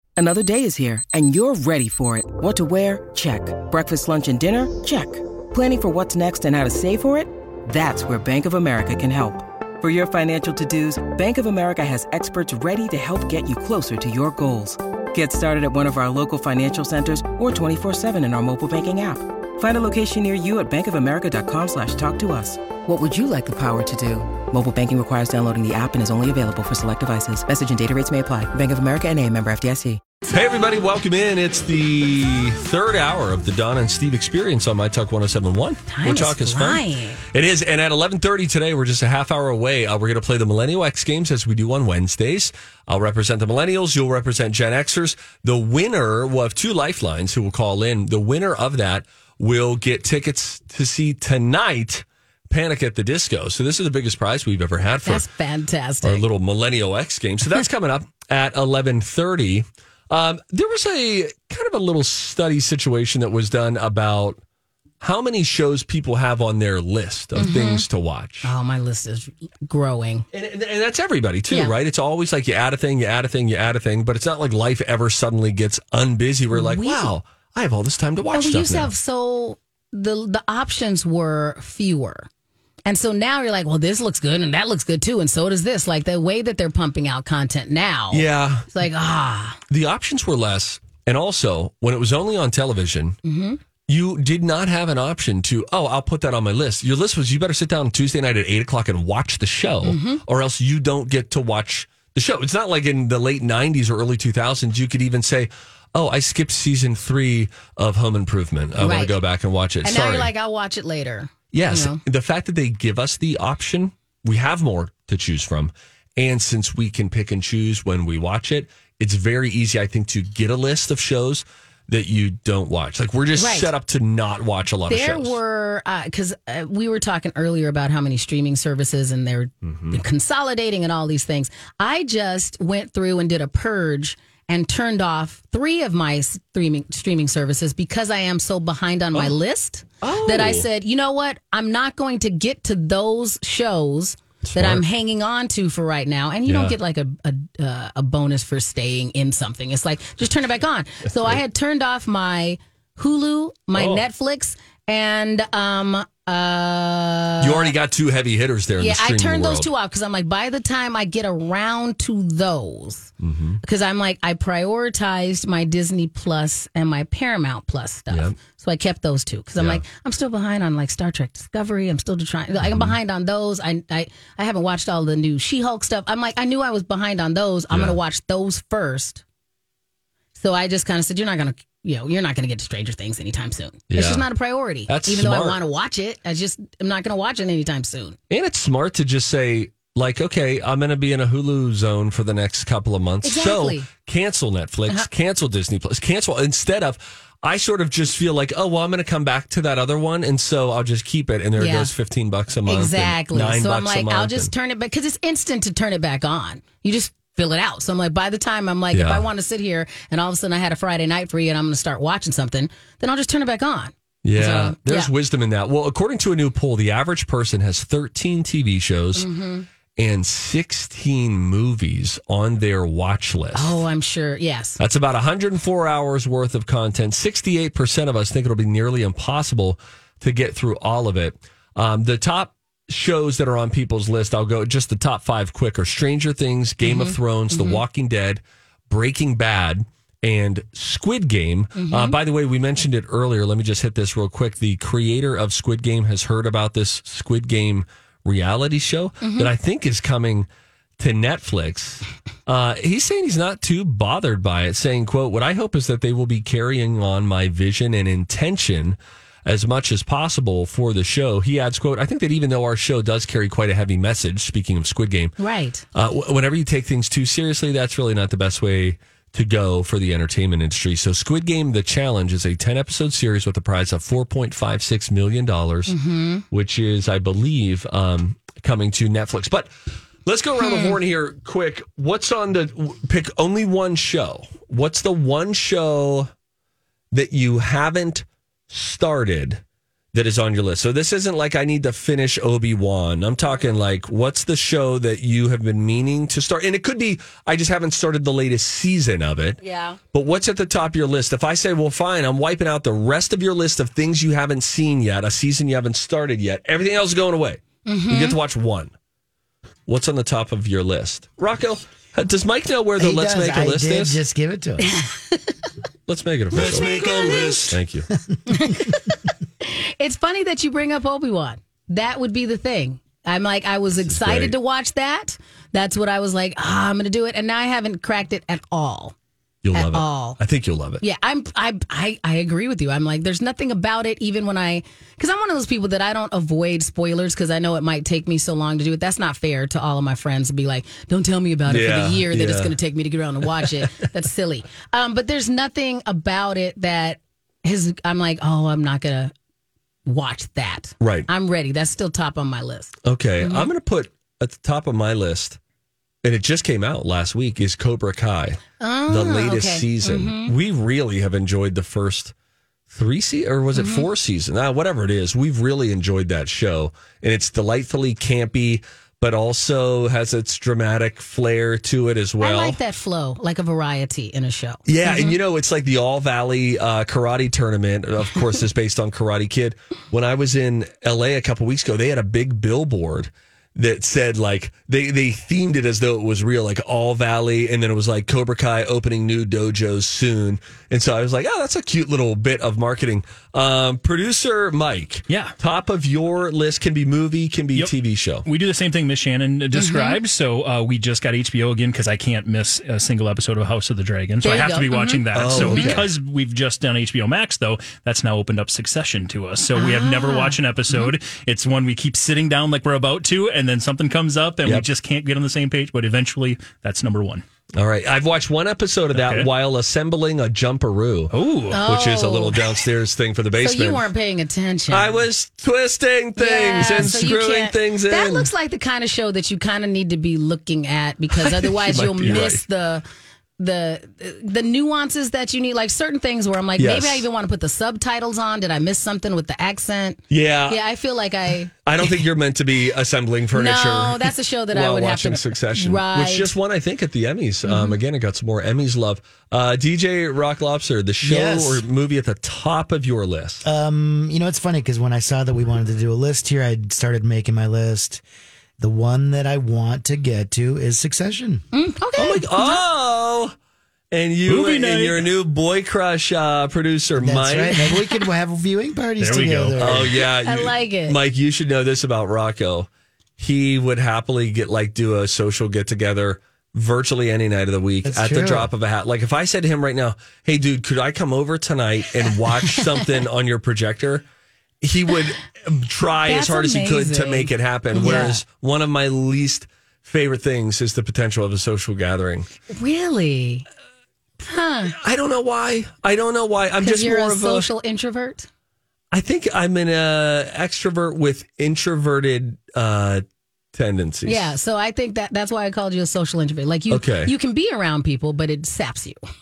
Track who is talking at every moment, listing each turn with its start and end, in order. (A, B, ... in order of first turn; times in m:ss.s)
0:00.2-0:30.0 A
0:30.3-0:55.2 B
0:35.9-0:37.2 C
0:55.0-0:56.2 C
0:56.0-1:04.4 B
1:05.0-1:08.5 B
1:07.4-1:07.9 C
1:08.4-1:10.2 C
1:10.3-1:18.9 B
1:16.5-1:17.1 C
1:18.3-1:22.3 C
1:22.9-1:29.6 C
1:28.1-1:28.7 B
1:29.7-1:33.2 B
1:33.2-1:33.6 C
1:33.9-1:50.3 B
1:39.8-1:40.2 C
1:48.8-1:49.2 C
1:49.8-1:52.0 C
1:51.5-2:05.4 B
2:03.4-2:03.7 C
2:04.9-2:37.7 C
2:09.7-2:10.0 B
2:20.0-2:20.7 B
2:24.4-2:24.8 B
2:26.5-2:26.8 B
2:33.8-2:34.0 B
2:37.4-2:39.7 B
2:38.8-2:43.1 C
2:43.2-2:43.6 B
2:43.6-2:59.2 C
2:49.6-2:49.8 B
2:52.6-2:53.0 B
2:57.7-2:58.0 B
3:00.4-3:08.2 C
3:03.9-3:04.2 B
3:04.9-3:05.6 B
3:08.3-3:24.5 B
3:13.2-3:13.9 C
3:21.6-3:21.9 C
3:22.7-3:35.1 C
3:28.9-3:29.2 B
3:34.2-3:39.3 B
3:39.1-3:39.7 C
3:40.0-3:43.8 B
3:43.6-3:44.8 C
3:44.8-4:10.5 B
3:56.8-3:57.8 C
4:01.8-4:02.2 C
4:09.2-4:09.5 C
4:11.0-4:25.3 B
4:25.4-4:25.8 C
4:25.9-4:35.9 B
4:35.9-4:36.4 C
4:36.5-4:39.7 B
4:40.2-4:46.3 B
4:40.6-4:40.9 C
4:47.1-4:49.6 B
4:50.1-4:59.6 B
4:59.6-5:00.0 C
5:00.1-5:08.9 B
5:07.9-5:08.4 C
5:09.9-5:14.2 B
5:13.0-5:14.9 D
5:14.8-5:15.6 C
5:16.1-5:18.1 B
5:16.5-5:17.7 C
5:16.5-5:17.5 D
5:18.5-5:29.2 C
5:24.1-5:24.5 B
5:29.6-5:31.0 B
5:29.8-5:30.4 C
5:31.0-5:49.3 C
5:41.7-5:42.7 B
5:43.6-5:43.8 B
5:50.1-5:53.7 C
5:51.0-5:51.3 B
5:53.0-5:55.6 B
5:56.2-6:02.3 B
5:58.8-6:00.5 C
6:02.9-6:12.8 B
6:03.8-6:04.1 C
6:12.4-6:15.4 C
6:14.9-6:38.4 B
6:35.3-6:35.6 E
6:38.4-6:57.4 E
6:39.7-6:40.2 C
6:44.4-6:46.0 C
6:45.3-6:46.1 B
6:49.8-6:51.1 C
6:57.8-7:04.1 B
6:59.1-6:59.5 E
7:01.3-7:01.8 E
7:01.7-7:02.6 C
7:03.6-7:05.2 C
7:04.9-7:08.5 B
7:06.4-7:13.0 C
7:06.9-7:07.3 E
7:11.4-7:12.6 B
7:13.6-7:21.8 C
7:16.8-7:17.2 B
7:20.3-7:20.8 B
7:21.8-7:33.6 B
7:23.5-7:26.6 C
7:27.6-7:28.0 C
7:31.2-7:31.8 D
7:33.6-7:38.2 D
7:38.8-7:41.6 D
7:41.7-7:42.8 C
7:42.2-7:43.5 B
7:44.1-7:47.8 B
7:44.5-7:45.2 E
7:47.2-7:50.1 D
7:49.2-7:50.0 E
7:49.8-8:04.2 B
7:50.4-7:51.2 C
7:58.0-7:58.7 D
8:04.8-8:12.5 B
8:06.3-8:08.4 C
8:12.7-8:13.7 C
8:14.4-8:15.0 C
8:14.9-8:17.7 B
8:16.8-8:18.5 C
8:19.1-8:24.5 B
8:24.3-8:29.2 C
8:26.9-8:27.3 B